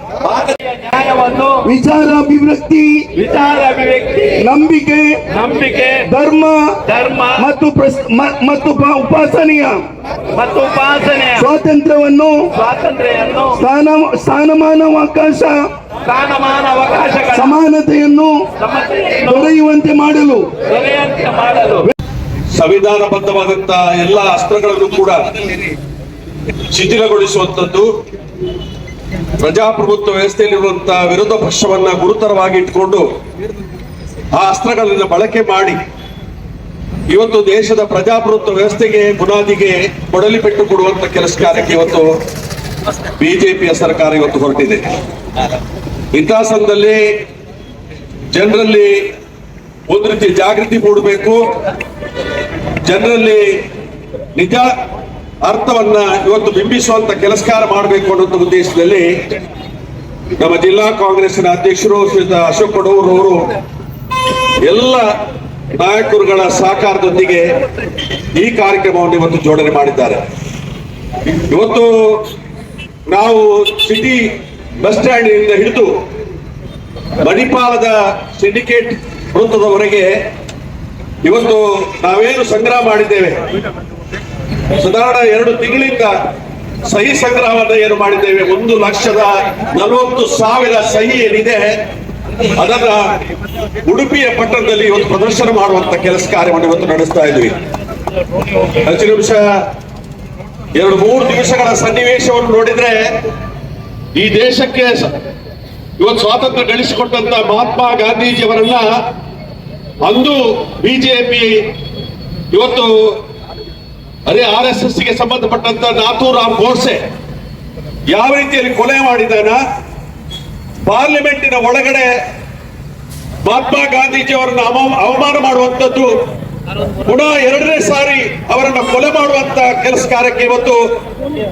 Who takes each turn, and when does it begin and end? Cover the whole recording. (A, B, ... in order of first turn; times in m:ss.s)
0:00.2-0:01.6 A
0:01.6-0:03.1 B
0:03.1-0:04.4 A
0:04.4-0:05.2 B
0:05.3-0:06.0 A
0:06.0-0:06.8 B
0:06.8-0:07.4 A
0:07.4-0:09.8 B
0:10.3-0:11.5 A
0:11.4-0:12.5 B
0:12.5-0:13.6 A
0:13.6-0:15.7 B
0:16.0-0:17.6 A
0:17.3-0:18.4 B
0:18.6-0:19.5 A
0:19.2-0:20.6 B
0:20.6-0:21.9 A
0:22.5-0:25.2 C
0:26.7-0:27.9 C
0:29.4-0:33.1 C
0:34.3-0:35.8 C
0:37.1-0:42.2 C
0:43.2-0:44.9 C
0:46.1-0:47.2 C
0:48.3-0:49.1 C
0:49.9-0:51.5 C
0:52.8-0:53.6 C
0:54.3-0:54.7 C
0:55.4-0:59.2 C
1:00.4-1:03.5 C
1:04.6-1:05.1 C
1:05.7-1:07.5 C
1:08.3-1:10.2 C
1:11.2-1:12.3 C
1:13.1-1:16.0 C
1:17.2-1:20.2 C
1:21.2-1:23.4 C
1:24.7-1:26.2 C
1:26.9-1:31.8 C
1:32.5-1:33.1 C
1:33.8-1:37.6 C
1:38.8-1:39.6 C
1:40.7-1:43.2 C
1:44.1-1:45.2 C
1:46.0-1:49.0 C
1:50.0-1:51.7 C
1:52.5-1:53.2 C
1:54.3-1:57.0 C
1:58.1-1:59.6 C
2:00.8-2:02.2 C
2:03.4-2:06.2 C
2:07.0-2:10.8 C